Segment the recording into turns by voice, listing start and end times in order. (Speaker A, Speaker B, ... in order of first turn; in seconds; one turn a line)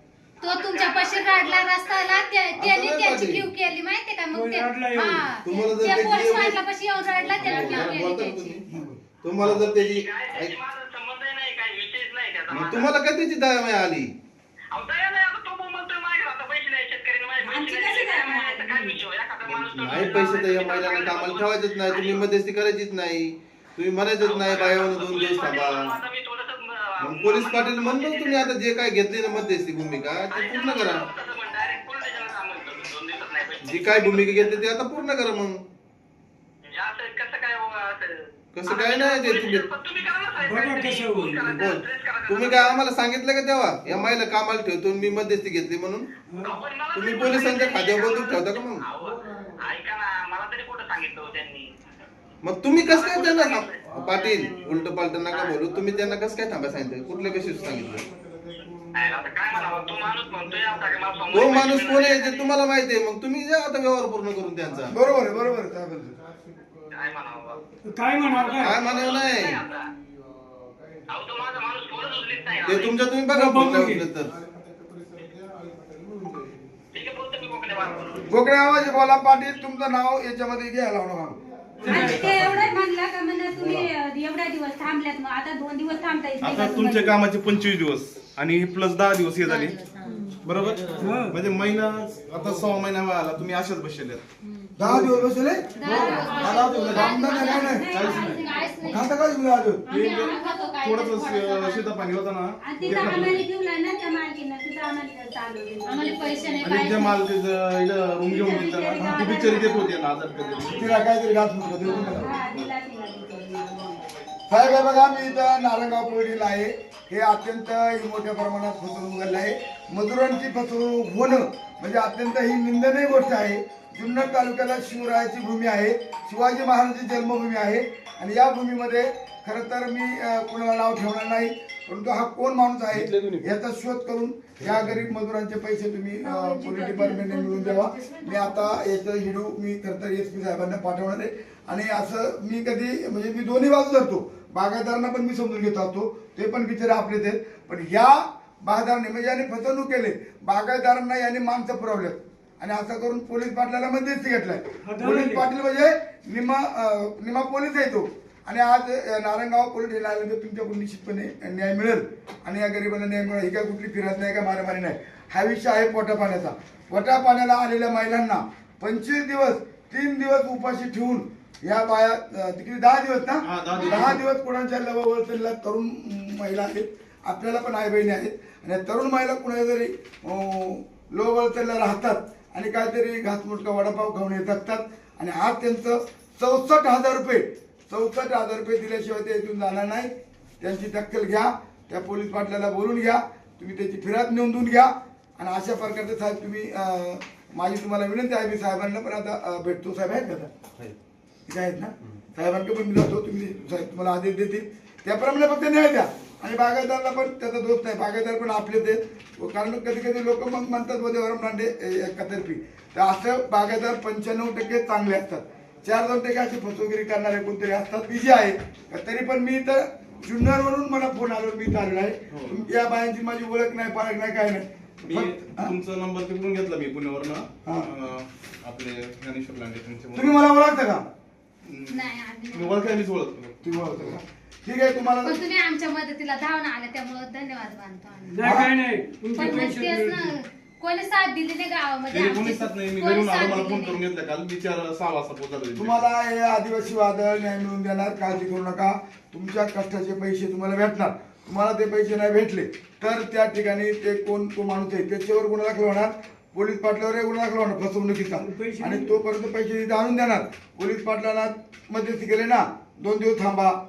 Speaker A: 0.4-8.5
Speaker B: 0.4-2.3
Speaker C: 2.5-3.5
Speaker D: 4.3-5.4
Speaker C: 5.4-8.6
Speaker E: 8.7-9.0
Speaker C: 9.2-10.5
Speaker B: 9.6-12.9
Speaker C: 12.5-14.1
Speaker B: 14.7-22.3
Speaker F: 17.4-19.0
Speaker C: 19.5-25.9
Speaker B: 24.2-28.5
Speaker C: 27.0-31.1
Speaker B: 30.3-34.5
Speaker C: 33.6-35.5
Speaker B: 36.7-38.1
Speaker C: 38.5-39.7
Speaker B: 38.6-42.8
Speaker D: 40.4-41.6
Speaker C: 41.5-46.1
Speaker B: 46.4-51.7
Speaker C: 46.9-48.8
Speaker C: 52.4-58.0
Speaker B: 52.9-54.4
Speaker B: 58.9-62.5
Speaker C: 61.3-64.9
Speaker E: 64.9-66.1
Speaker B: 66.9-67.6
Speaker D: 67.8-68.7
Speaker B: 68.3-69.8
Speaker C: 68.6-69.6
Speaker B: 71.1-73.0
Speaker C: 72.6-74.3
Speaker D: 73.3-74.0
Speaker B: 76.9-78.3
Speaker E: 78.3-81.4
Speaker D: 81.8-82.2
Speaker F: 81.8-87.1
Speaker E: 81.9-82.6
Speaker E: 83.5-83.8
Speaker G: 86.4-89.8
Speaker A: 89.5-90.1
Speaker G: 90.4-94.2
Speaker D: 91.0-91.4
Speaker E: 94.8-98.2
Speaker G: 94.8-95.1
Speaker A: 95.8-99.0
Speaker G: 95.8-98.6
Speaker F: 96.1-98.8
Speaker E: 98.8-99.9
Speaker G: 99.9-103.4
Speaker A: 99.9-101.9
Speaker F: 102.6-106.8
Speaker A: 105.8-107.1
Speaker G: 106.6-110.8
Speaker F: 108.3-110.7
Speaker E: 109.0-109.3
Speaker E: 110.6-112.3
Speaker F: 111.8-114.1
Speaker G: 111.9-112.7
Speaker E: 114.5-200.5
Speaker C: 132.9-133.4
Speaker D: 154.8-155.4
Speaker G: 173.4-174.2
Speaker E: 201.5-225.7
Speaker G: 222.3-222.6
Speaker G: 225.0-230.3
Speaker E: 230.1-231.0
Speaker G: 231.6-233.6
Speaker A: 231.9-232.8
Speaker E: 233.6-235.4
Speaker A: 235.2-238.4
Speaker D: 238.3-240.3
Speaker E: 238.4-238.7
Speaker A: 239.3-244.0
Speaker G: 242.1-246.1
Speaker E: 245.8-263.8
Speaker D: 258.4-259.1